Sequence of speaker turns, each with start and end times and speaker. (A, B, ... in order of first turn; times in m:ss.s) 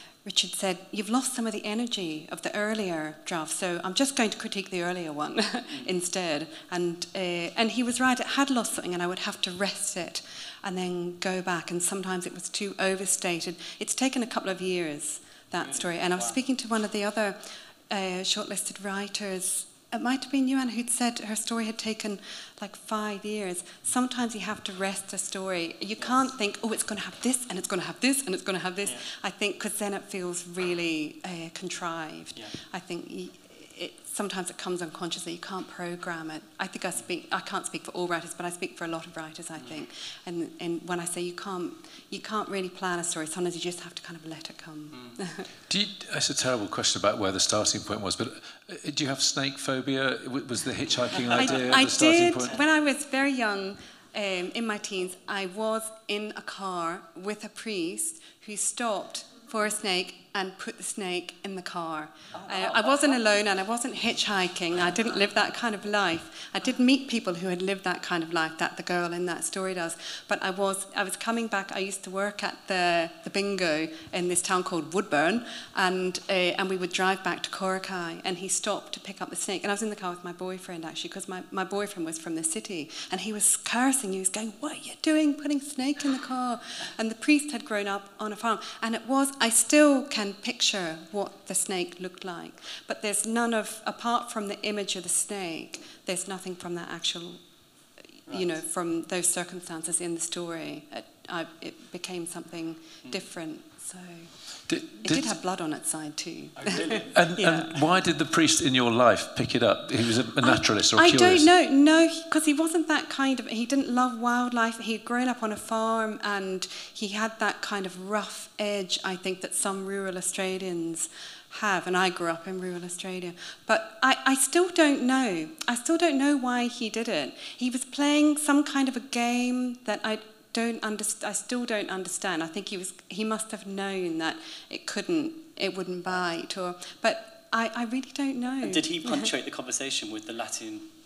0:00.2-0:45.5 A
0:15.6-0:16.4 B
0:26.0-0:26.3 B
0:44.9-0:45.2 B
0:45.7-0:52.6 C
0:51.3-1:37.4 A
1:02.4-1:03.2 B
1:38.3-1:47.8 A
1:38.3-1:38.5 B
1:44.7-1:45.3 C
1:46.6-1:47.1 B
1:47.1-1:51.5 C
1:50.4-2:19.3 A
2:18.6-2:20.9 B